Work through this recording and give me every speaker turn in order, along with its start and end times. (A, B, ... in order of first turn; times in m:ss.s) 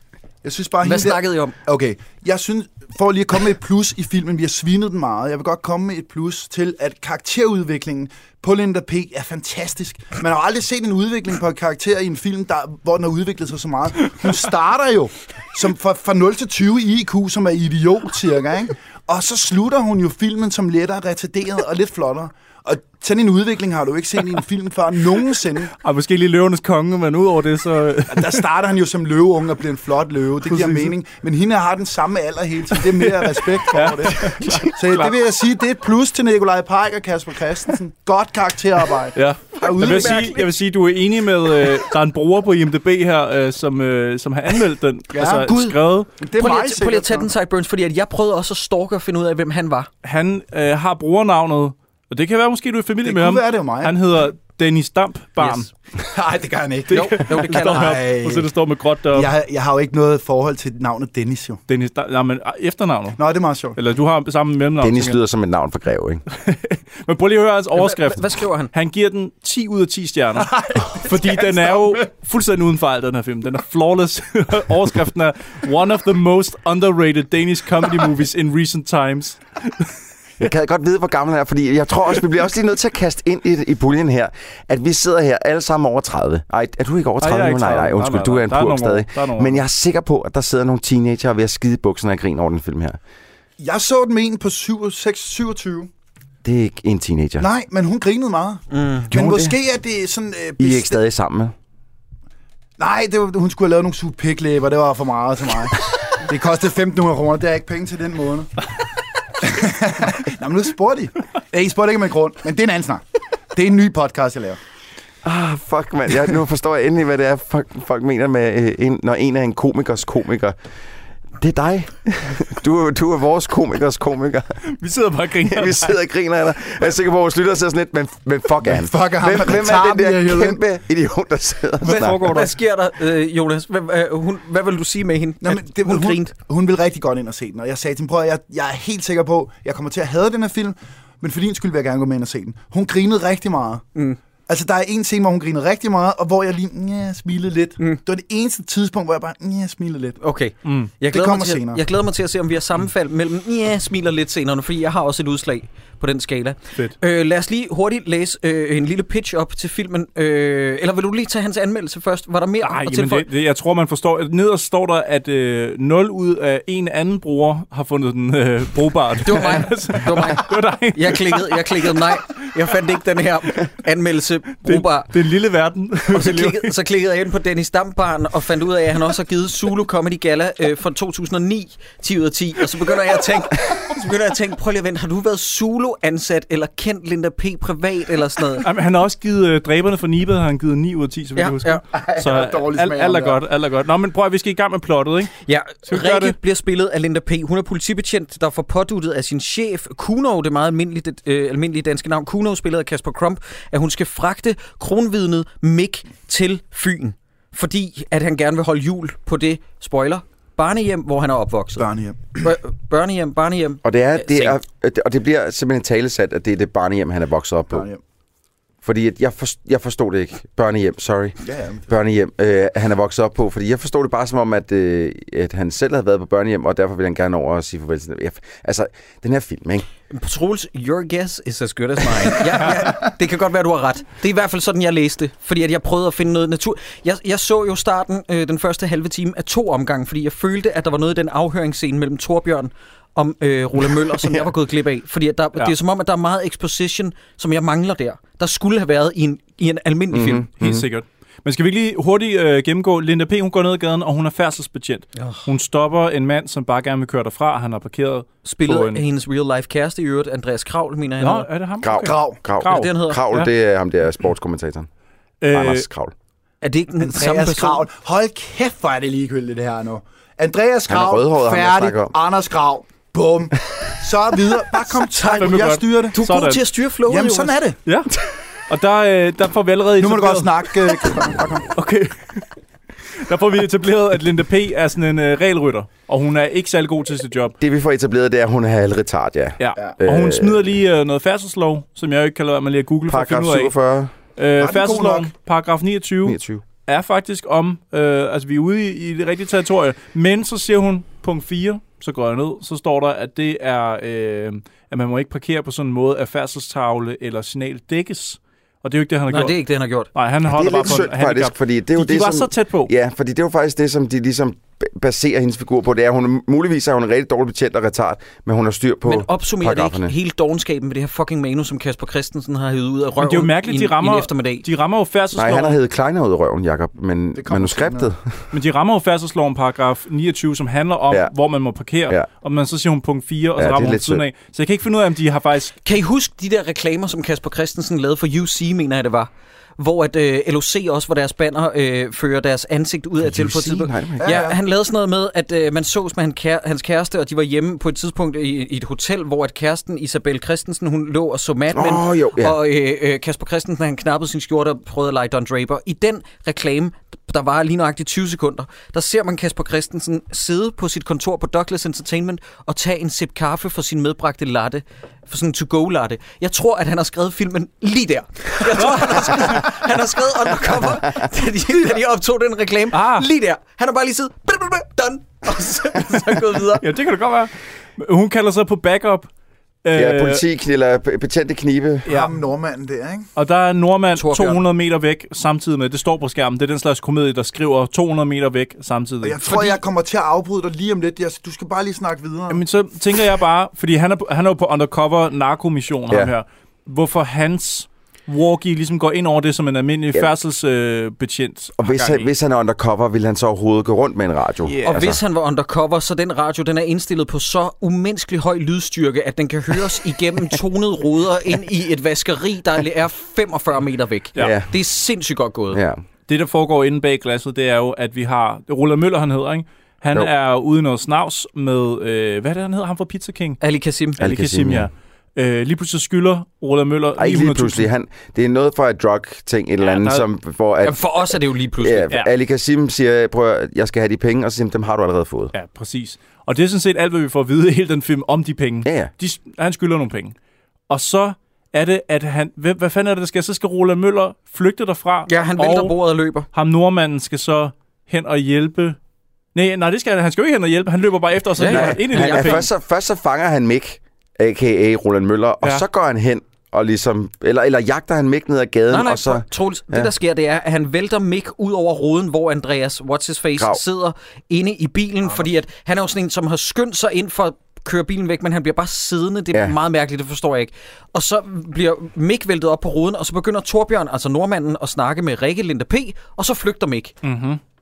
0:00.4-0:25.7 A
0:00.8-0:01.6 B
0:25.8-0:28.4 C
0:28.1-0:40.4 A
0:30.5-0:30.9 C
0:32.8-0:35.2 C
0:39.2-0:46.1 C
0:39.9-0:40.2 B
0:45.1-0:47.3 A
0:46.4-0:49.9 B
0:50.0-0:55.7 C
0:53.0-0:53.9 A
0:55.4-0:55.6 B
0:56.0-0:58.5 A
0:56.9-0:59.3 C
0:56.9-0:58.0 B
0:59.1-1:01.6 A
1:01.7-1:03.2 C
1:03.2-1:03.8 A
1:03.8-1:05.2 C
1:04.8-1:06.2 D
1:06.3-1:19.9 C
1:07.8-1:08.7 B
1:10.6-1:11.8 A
1:20.4-1:33.0 D
1:27.2-1:29.6 C
1:33.6-1:35.9 A
1:36.4-1:37.5 D
1:37.4-1:41.0 A
1:38.7-1:39.1 B
1:39.1-1:39.6 D
1:40.6-1:41.5 D
1:42.8-1:48.5 A
1:49.4-1:54.6 A
1:55.2-2:00.6 D
2:01.4-2:04.6 D
2:04.7-2:06.0 C
2:05.4-2:12.4 D
2:08.6-2:10.6 A
2:11.8-2:12.5 C
2:11.8-2:16.3 B
2:15.4-2:23.8 A
2:24.5-2:30.2 A
2:30.2-2:43.3 B
2:30.6-2:30.9 C
2:31.1-2:31.8 A
2:42.6-2:52.2 C
2:49.2-2:55.1 B
2:54.6-2:56.7 C
2:56.1-3:08.7 B
3:08.6-3:15.3 C
3:11.4-3:11.8 B
3:11.9-3:13.4 A
3:15.5-3:31.9 B
3:15.9-3:16.4 C
3:31.8-3:32.5 A
3:32.4-3:34.6 B
3:33.8-3:37.9 D
3:37.7-3:38.0 A
3:38.8-3:49.9 D
3:41.4-3:41.9 A
3:50.1-4:10.5 B
4:10.1-4:10.9 D
4:10.6-4:19.0 C
4:15.2-4:15.5 B
4:18.4-4:21.5 B
4:21.2-4:23.5 C
4:21.8-4:24.9 D
4:22.0-4:22.4 A
4:22.6-4:23.2 B
4:25.4-4:25.9 C
4:25.5-4:26.1 D
4:26.6-4:27.8 B
4:27.0-4:36.2 A
4:30.9-4:32.1 D
4:35.1-4:37.6 B
4:35.4-4:36.6 C
4:37.1-4:37.8 A
4:37.9-4:38.1 C
4:38.7-4:41.1 C
4:40.0-4:41.7 A
4:41.7-4:42.5 C
4:43.2-4:47.6 C
4:47.6-4:50.6 D
4:49.6-4:53.7 C
4:53.1-4:54.1 D
4:54.4-5:09.6 C
4:54.6-4:55.3 A
4:56.3-4:56.6 D
5:09.3-5:10.1 B
5:10.1-5:12.9 C
5:10.5-5:20.1 D
5:19.0-5:24.6 B
5:23.2-5:25.8 C
5:25.3-5:28.3 D
5:27.4-5:28.1 A
5:28.5-5:35.8 C
5:33.6-5:34.2 D
5:35.8-6:16.8 B
5:43.2-5:44.4 D
5:44.2-5:44.6 A
5:51.7-5:52.6 D
6:08.8-6:09.6 C
6:12.9-6:13.3 C
6:16.8-6:19.3 C
6:19.8-6:20.4 C
6:19.9-6:22.1 D
6:22.1-6:22.3 C
6:22.1-6:23.3 A
6:23.4-6:29.8 C
6:24.1-6:24.6 B
6:29.2-6:32.6 A
6:32.5-6:42.3 C
6:41.8-6:45.2 D
6:44.7-6:45.0 C
6:44.9-6:55.8 B
6:54.4-6:54.7 D
6:55.7-6:56.0 D
6:56.3-7:03.6 C
7:03.6-7:04.2 B
7:04.2-7:07.9 C
7:04.2-7:04.9 D
7:07.2-7:15.5 D
7:09.8-7:10.2 C
7:10.8-7:12.1 B
7:15.5-7:20.4 C
7:18.8-7:19.1 D
7:20.9-7:26.0 C
7:25.3-7:26.5 B
7:26.5-7:29.0 C
7:29.6-7:32.7 C
7:31.6-7:32.6 B
7:31.7-7:40.1 D
7:38.9-7:57.2 B
7:43.6-7:43.8 D
7:57.2-7:57.6 C